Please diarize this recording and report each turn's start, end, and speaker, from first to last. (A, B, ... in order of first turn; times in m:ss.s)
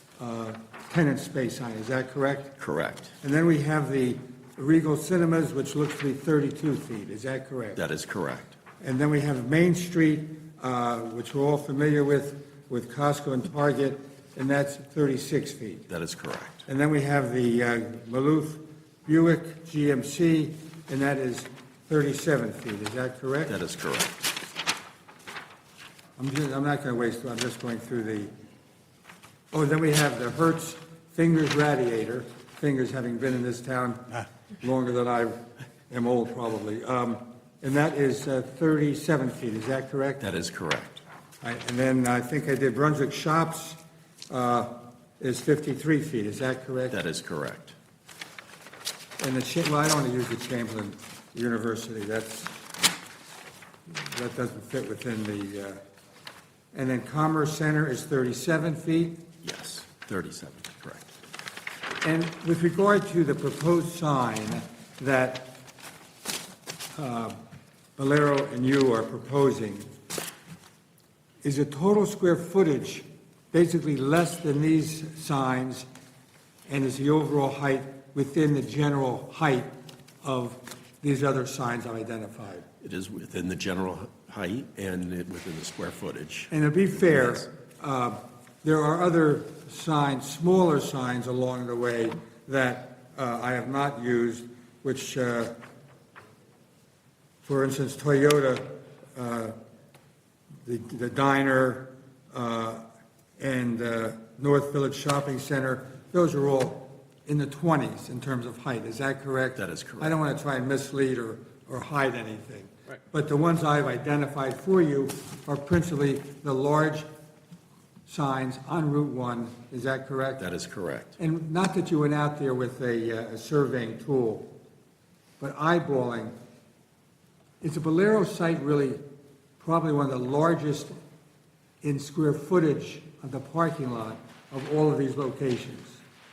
0:00.2-0:02.6 A
0:02.6-0:03.1 B
0:03.2-0:07.8 A
0:07.8-0:08.6 B
0:08.8-0:15.9 A
0:15.9-0:16.7 B
0:16.7-0:23.6 A
0:23.5-0:24.2 B
0:26.2-0:28.3 A
0:29.5-0:40.2 A
0:40.2-0:41.0 B
0:41.4-0:47.0 A
0:46.9-0:47.8 B
0:49.2-0:52.6 A
0:53.9-0:55.8 A
0:56.7-0:59.2 A
0:59.4-1:01.1 B
1:02.0-1:05.6 A
1:07.0-1:07.4 A
1:08.0-1:09.9 A
1:11.4-1:15.9 A
1:16.7-1:19.7 A
1:20.2-1:22.7 A
1:22.8-1:27.5 B
1:26.5-1:35.6 A
1:37.4-1:39.6 A
1:40.6-1:42.8 A
1:43.4-1:57.1 A
1:49.6-1:50.2 B
1:58.1-2:00.4 A
2:00.4-2:01.2 B
2:01.2-2:04.5 A
2:05.4-2:06.3 A
2:07.6-2:09.0 A
2:09.6-2:11.0 A
2:11.8-2:16.0 A